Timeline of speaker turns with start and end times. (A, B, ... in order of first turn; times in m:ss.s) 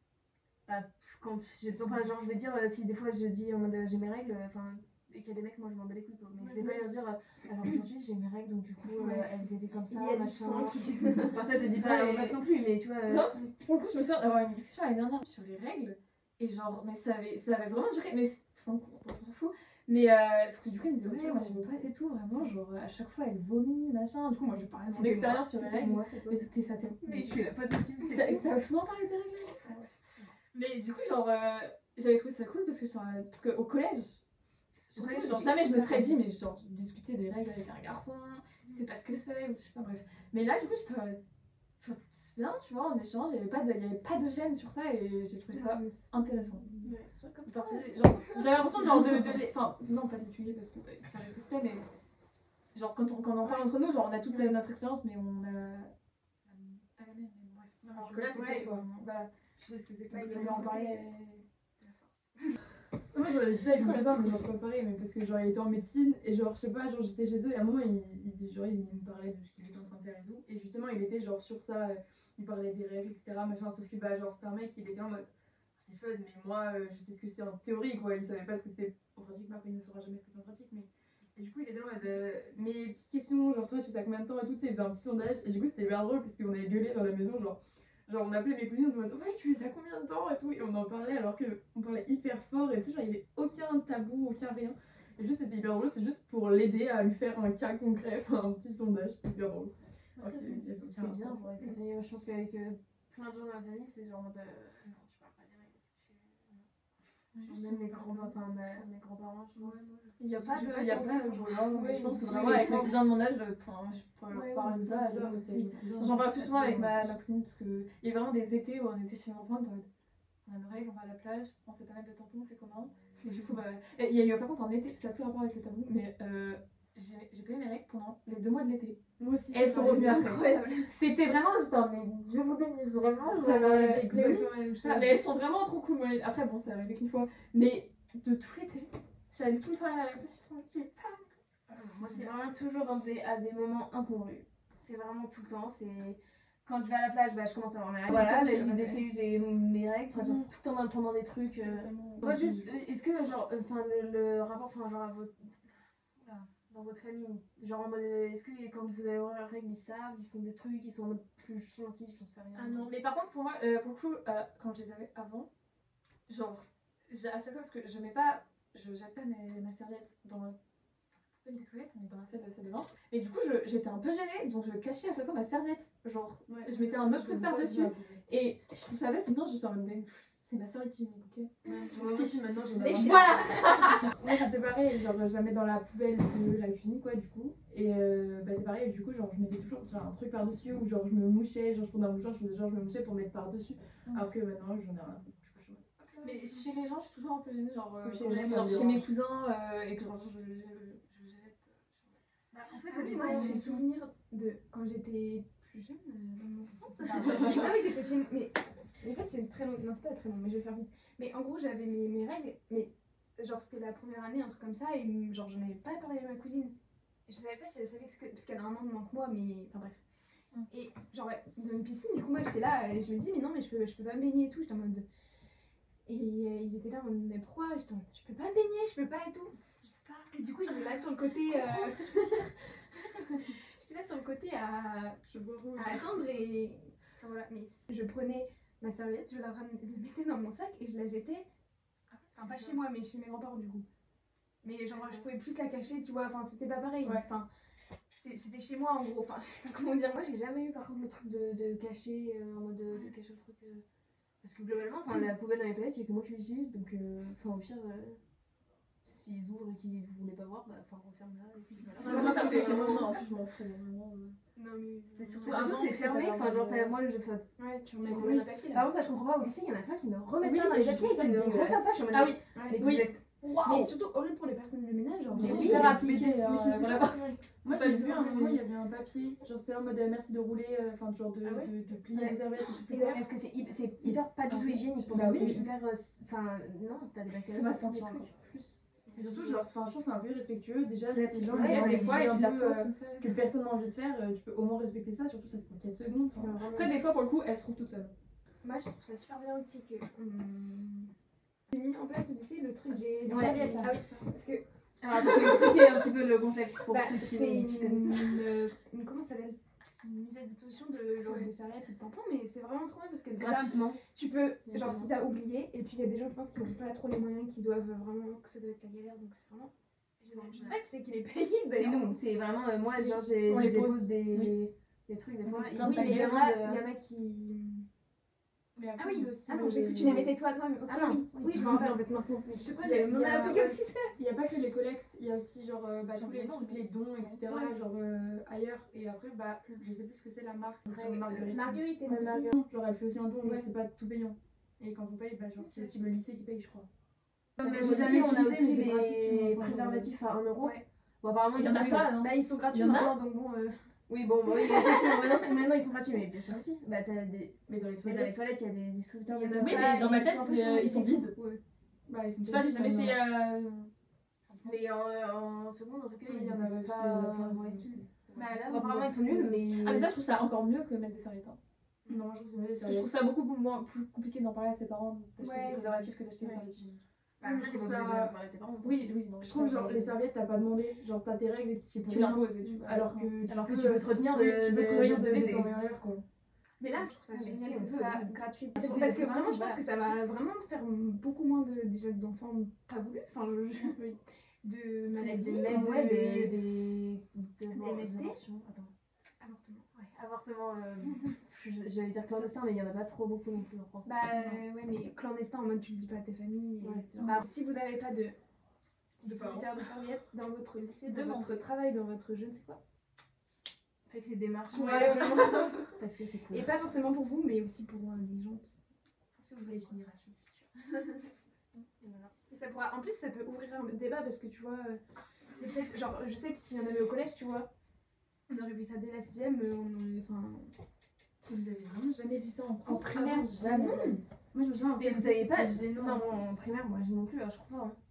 0:00.7-0:13.5 A
0:06.4-0:06.9 B
0:08.9-0:09.3 B
0:09.9-0:12.4 B
0:13.1-0:27.4 C
0:21.1-0:21.8 A
0:24.9-0:26.5 A
0:27.0-0:28.5 A
0:28.0-0:30.0 C
0:30.5-0:34.2 C
0:34.9-0:41.2 C
0:34.9-0:36.2 A
0:41.8-0:51.8 C
0:45.5-0:49.4 B
0:52.7-0:55.9 C
0:53.4-0:53.7 B
0:56.4-1:01.4 C
0:57.8-0:58.9 D
0:58.3-0:58.7 B
1:00.1-1:01.1 B
1:01.8-1:02.5 B
1:03.1-1:41.4 D
1:03.8-1:04.4 C
1:40.2-1:46.7 A
1:47.3-1:47.6 C
1:47.4-1:49.8 A
1:47.5-1:48.4 B
1:50.2-1:59.9 C
1:50.3-1:52.9 B
1:52.2-1:53.0 A
1:54.3-1:55.3 B
1:54.9-1:57.1 D
2:00.4-2:09.0 C
2:09.2-2:10.4 D
2:09.5-2:22.3 C
2:09.8-2:10.9 B
2:13.3-2:15.2 D
2:21.7-2:42.9 A
2:28.1-2:29.0 C
2:31.8-2:32.7 D
2:42.6-2:45.5 C
2:46.3-2:50.6 C
2:51.2-3:04.3 C
2:56.5-2:58.2 D
3:01.7-3:16.3 D
3:03.0-3:03.5 B
3:16.2-3:22.2 C
3:18.0-3:19.1 D
3:18.2-3:18.9 A
3:22.6-3:36.8 B
3:22.8-3:23.7 A
3:22.9-3:23.8 C
3:27.0-3:27.8 C
3:37.3-3:40.0 B
3:40.7-3:45.0 B
3:46.1-3:55.2 B
3:51.4-3:52.5 C
3:55.2-3:56.2 D
3:55.8-4:01.5 B
4:02.1-4:02.8 C
4:02.4-4:03.8 B
4:04.6-4:07.5 B
4:08.1-4:10.2 B
4:10.0-4:13.8 A
4:14.4-4:18.2 A
4:19.0-4:23.1 A
4:22.0-4:24.4 C
4:24.6-4:26.0 B
4:25.1-4:27.0 C
4:25.4-4:27.5 A
4:27.6-4:28.9 B
4:28.0-4:33.9 A
4:30.4-4:31.9 D
4:32.1-4:33.8 C
4:32.6-4:33.1 B
4:33.6-4:36.0 B
4:35.4-4:35.9 A
4:35.4-4:38.6 C
4:35.4-4:43.2 D
4:37.0-4:37.4 B
4:41.4-4:41.7 B
4:42.9-4:48.3 A
4:42.9-4:43.2 B
4:44.5-4:45.7 C
4:45.1-4:45.7 D
4:47.5-4:49.6 C
4:49.1-4:56.6 D
4:51.1-4:52.4 A
4:51.5-4:53.4 C
4:56.4-4:57.0 A
4:56.7-4:58.1 C
4:58.6-5:01.1 B
5:01.7-5:04.6 B
5:02.9-5:04.3 D
5:03.3-5:03.9 A
5:03.3-5:04.0 C
5:05.0-5:08.5 A
5:06.9-5:22.2 B
5:13.4-5:14.0 A
5:14.7-5:15.1 A
5:20.3-5:20.8 A
5:21.7-5:26.8 A
5:23.0-5:23.2 B
5:23.5-5:24.5 C
5:25.5-5:26.6 C
5:25.5-5:27.9 B
5:28.8-5:30.4 D
5:29.0-5:34.2 B
5:30.9-5:32.0 A
5:32.7-5:46.9 D
5:36.1-5:37.7 C
5:41.0-5:42.5 B
5:45.6-5:46.1 B
5:47.6-5:50.1 D
5:47.6-5:52.2 A
5:47.7-5:48.0 C
5:50.6-5:50.8 B
5:51.6-5:53.2 C
5:52.1-5:53.8 B
5:54.1-6:00.4 A
5:57.7-5:58.4 D
5:59.3-6:01.6 B
5:59.6-6:01.3 C
6:02.1-6:03.2 D
6:02.5-6:03.9 C
6:04.5-6:04.8 C
6:04.6-6:07.8 A
6:06.2-6:08.0 D
6:07.8-6:09.5 B
6:08.6-6:10.1 A
6:09.7-6:11.6 C
6:12.1-6:13.1 D
6:12.8-6:17.0 C
6:15.4-6:16.1 B
6:17.4-6:18.4 D
6:17.4-6:19.2 A
6:18.8-6:20.1 C
6:19.4-6:26.2 D
6:22.1-6:23.3 C
6:23.5-6:25.7 A
6:26.8-6:34.1 B
6:27.3-6:29.8 A
6:28.8-6:29.8 C
6:34.6-6:36.5 B
6:35.1-6:38.9 A
6:35.6-6:36.3 D
6:37.7-6:38.4 B
6:39.4-6:39.9 B
6:40.0-6:44.3 A
6:41.1-6:41.3 B
6:44.0-6:48.4 B
6:44.3-6:44.6 C
6:46.8-6:47.1 A
6:47.1-6:47.5 D
6:49.2-6:52.8 B
6:49.2-6:49.7 D
6:51.1-6:51.6 C
6:54.1-6:56.7 A
6:54.7-6:55.9 B
6:54.7-6:55.8 D
6:56.5-6:58.8 B
6:59.4-7:01.3 B
7:01.9-7:05.0 B
7:05.6-7:07.7 B
7:08.5-7:10.7 B
7:11.5-7:16.6 D
7:12.8-7:14.2 C
7:13.2-7:14.2 B
7:15.0-7:18.0 A